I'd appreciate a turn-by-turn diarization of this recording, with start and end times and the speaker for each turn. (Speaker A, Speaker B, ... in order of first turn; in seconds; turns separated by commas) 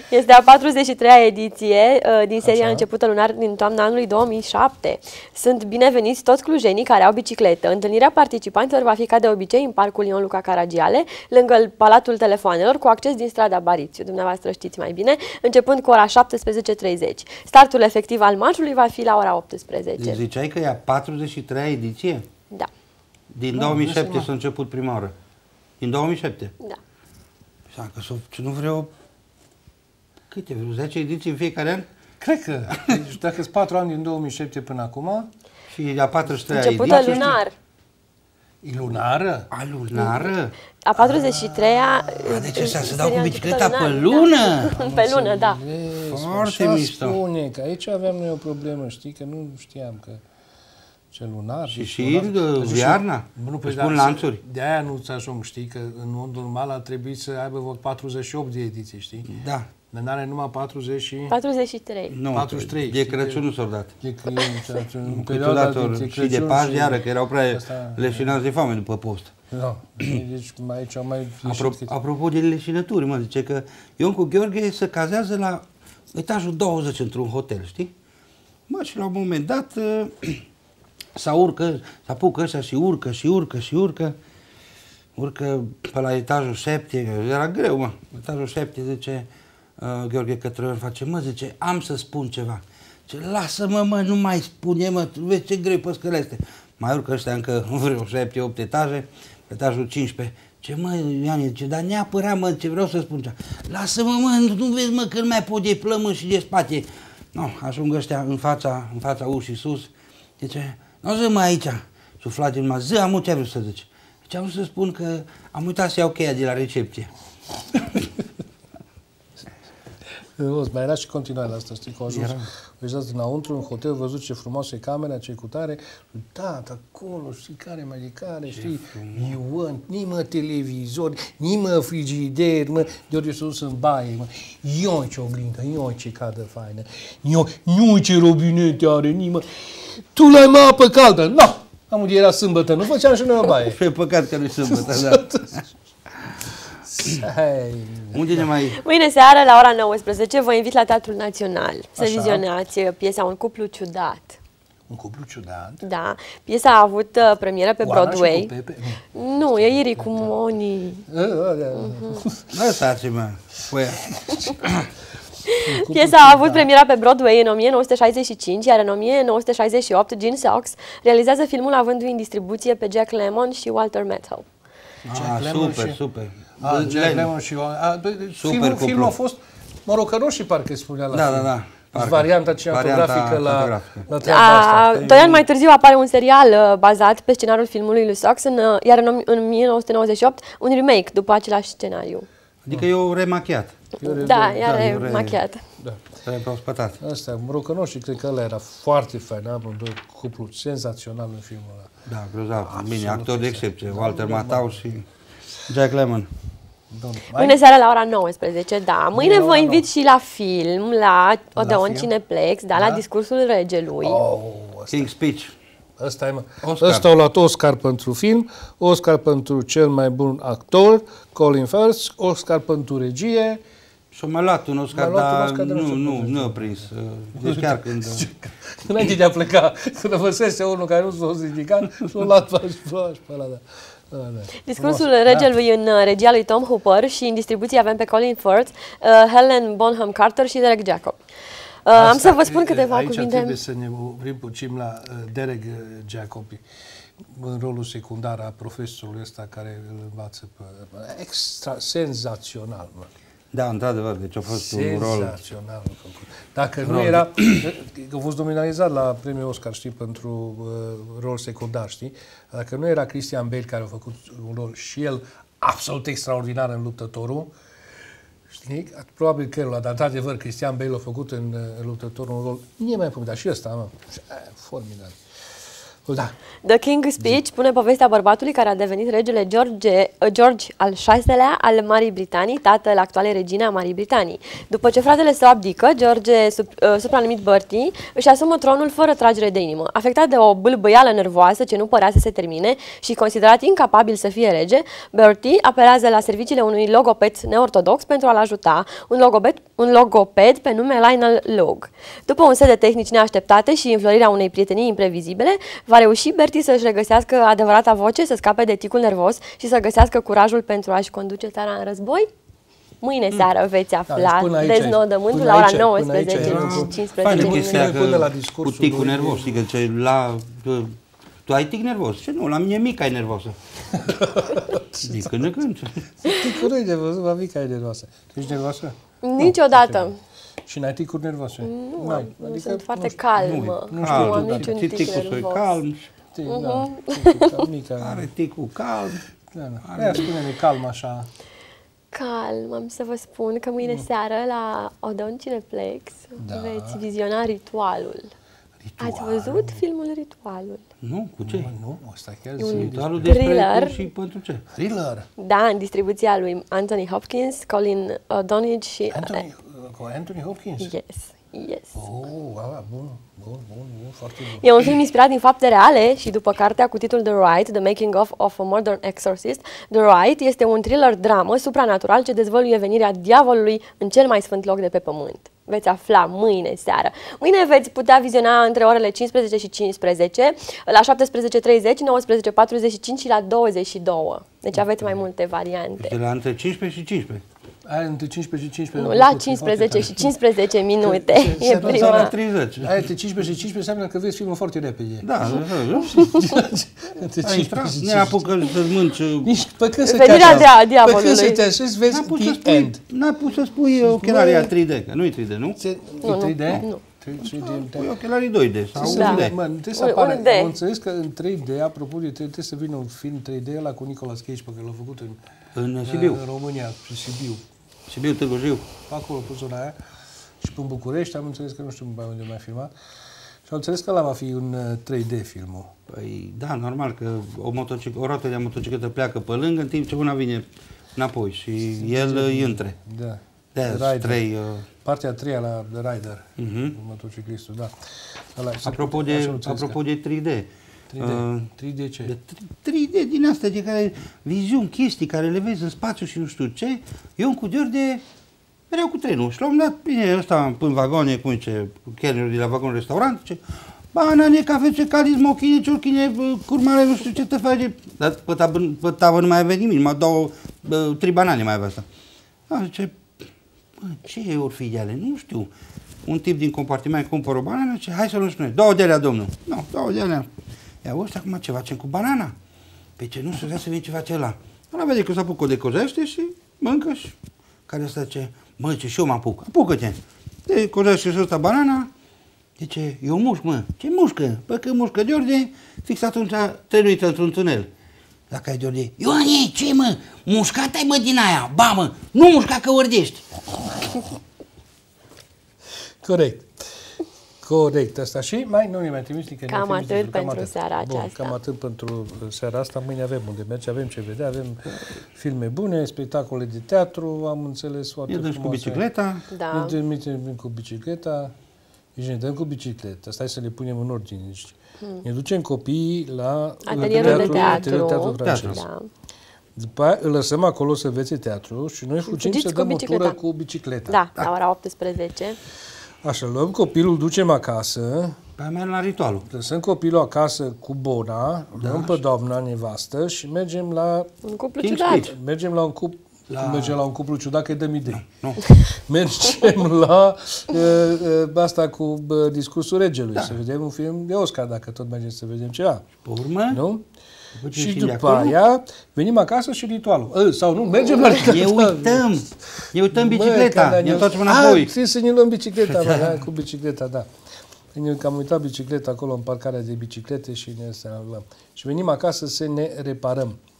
Speaker A: 0.1-20.2, Speaker B: 2.4-2.9, Speaker C: 20.0-22.2, Speaker C: 23.3-25.1, Speaker B: 23.5-24.3, Speaker C: 25.8-26.5, Speaker C: 27.7-28.9, Speaker C: 30.3-31.9, Speaker B: 32.2-35.3, Speaker C: 35.7-37.4, Speaker A: 36.5-37.5, Speaker B: 36.9-37.4, Speaker B: 38.6-39.5, Speaker C: 39.5-40.5, Speaker A: 40.0-40.3, Speaker A: 40.8-45.6, Speaker B: 41.0-43.2, Speaker C: 42.2-44.8, Speaker B: 44.8-50.2, Speaker C: 46.1-47.2, Speaker B: 51.1-59.3, Speaker C: 51.7-54.4, Speaker C: 59.3-59.7, Speaker B: 59.9-61.3, Speaker A: 61.3-62.1, Speaker C: 62.1-63.9, Speaker B: 62.3-63.4, Speaker B: 64.0-68.4, Speaker C: 65.1-69.3, Speaker B: 69.5-71.9, Speaker C: 71.4-77.9, Speaker C: 78.7-80.4, Speaker C: 81.1-84.2, Speaker C: 85.1-89.3, Speaker C: 89.8-117.1, Speaker B: 120.4-143.8, Speaker C: 122.1-122.5, Speaker C: 128.5-129.3, Speaker C: 143.6-145.4, Speaker B: 144.7-145.6, Speaker B: 146.8-148.5, Speaker C: 148.1-148.8, Speaker A: 148.8-154.4, Speaker B: 152.0-152.4, Speaker B: 154.9-155.8, Speaker A: 155.8-158.5, Speaker B: 157.8-160.3, Speaker A: 159.1-161.1, Speaker B: 161.1-162.5, Speaker A: 161.8-162.2, Speaker C: 162.5-164.9, Speaker B: 164.1-164.5, Speaker A: 165.5-174.4, Speaker B: 165.6-166.7, Speaker C: 175.1-177.3, Speaker B: 175.1-176.0, Speaker B: 176.6-185.4, Speaker C: 178.3-179.1, Speaker C: 181.1-184.1, Speaker A: 184.2-192.3, Speaker C: 192.7-193.8, Speaker B: 194.0-196.1, Speaker A: 194.0-195.6, Speaker C: 194.6-195.4, Speaker C: 196.2-197.0, Speaker B: 197.0-201.9, Speaker C: 202.1-205.0, Speaker B: 202.6-205.0, Speaker C: 205.7-206.3, Speaker B: 206.9-207.6, Speaker A: 207.3-214.2, Speaker B: 209.1-209.9, Speaker B: 211.6-212.1, Speaker B: 212.7-213.0, Speaker B: 214.0-215.1, Speaker C: 214.9-215.5, Speaker B: 216.0-223.6, Speaker C: 216.6-217.1, Speaker C: 224.1-228.2, Speaker B: 224.9-235.5, Speaker A: 234.6-241.2, Speaker A: 241.8-243.6, Speaker B: 241.9-246.6, Speaker B: 247.3-253.1, Speaker C: 253.5-255.3, Speaker B: 254.5-267.5, Speaker C: 256.8-257.6, Speaker B: 268.5-275.1, Speaker B: 276.1-276.4, Speaker A: 276.6-312.3, Speaker A: 313.0-317.9, Speaker B: 314.1-319.5, Speaker C: 316.3-323.6, Speaker B: 323.9-325.5, Speaker C: 325.0-326.1, Speaker B: 326.2-330.1, Speaker A: 329.2-330.2, Speaker B: 330.6-335.1, Speaker A: 331.6-335.7, Speaker C: 333.4-336.1, Speaker B: 336.3-338.3, Speaker A: 336.5-337.6, Speaker C: 338.0-339.2, Speaker B: 339.5-341.3, Speaker C: 339.8-340.3, Speaker A: 342.1-348.3, Speaker B: 346.4-347.0, Speaker B: 348.8-349.8, Speaker A: 349.0-350.8, Speaker C: 351.0-351.7, Speaker B: 351.4-353.4, Speaker A: 352.6-354.0, Speaker C: 352.7-354.6, Speaker B: 354.7-355.3, Speaker A: 355.4-359.4, Speaker B: 359.1-360.9, Speaker A: 360.8-361.9, Speaker B: 361.9-364.7, Speaker A: 364.6-386.1, Speaker C: 386.0-387.4, Speaker B: 387.9-390.3, Speaker A: 389.0-392.3, Speaker B: 391.0-392.3, Speaker C: 391.6-392.9, Speaker B: 392.8-395.3, Speaker C: 395.2-396.3, Speaker B: 396.1-398.7, Speaker C: 397.4-399.5, Speaker B: 399.4-403.0, Speaker A: 400.1-401.6, Speaker C: 402.1-405.8, Speaker B: 404.1-404.7, Speaker B: 405.8-408.1, Speaker A: 406.2-407.0, Speaker C: 407.7-409.5, Speaker B: 409.0-415.4, Speaker A: 409.0-410.7, Speaker C: 415.7-416.4, Speaker B: 416.0-417.6, Speaker C: 418.1-418.9, Speaker B: 419.1-419.9, Speaker B: 420.6-422.9, Speaker B: 423.7-425.9, Speaker C: 426.1-432.9, Speaker B: 432.0-434.4, Speaker C: 433.7-434.9, Speaker B: 435.0-437.9, Speaker C: 436.6-436.9, Speaker B: 438.5-440.0, Speaker C: 438.8-440.7, Speaker B: 441.1-442.3, Speaker C: 441.2-441.7, Speaker C: 442.2-448.2, Speaker C: 448.9-453.6, Speaker C: 454.1-462.1, Speaker C: 462.7-463.4, Speaker C: 464.0-465.7, Speaker C: 466.2-470.5, Speaker C: 471.0-472.5, Speaker C: 473.2-477.4, Speaker C: 477.9-482.1, Speaker C: 482.8-487.9, Speaker C: 488.5-493.4, Speaker B: 496.2-496.7, Speaker B: 497.6-509.1, Speaker A: 499.7-501.5, Speaker C: 508.3-509.4, Speaker A: 509.5-510.0, Speaker B: 509.7-511.5, Speaker B: 512.1-518.8, Speaker A: 516.9-519.1, Speaker C: 517.1-517.9, Speaker C: 518.4-518.8, Speaker B: 519.8-524.3, Speaker A: 522.3-523.4, Speaker A: 524.1-525.6, Speaker B: 526.2-528.4, Speaker C: 528.6-529.5, Speaker B: 529.5-534.3, Speaker C: 531.8-532.2, Speaker A: 534.4-535.3, Speaker C: 534.8-535.3, Speaker B: 535.1-538.2, Speaker C: 536.5-537.0, Speaker C: 538.1-538.6, Speaker B: 538.9-546.1, Speaker C: 546.2-546.8, Speaker B: 546.7-547.0, Speaker C: 547.6-548.5, Speaker B: 547.7-552.4, Speaker C: 551.4-554.9, Speaker B: 553.1-557.3, Speaker C: 555.9-556.4, Speaker B: 557.9-563.6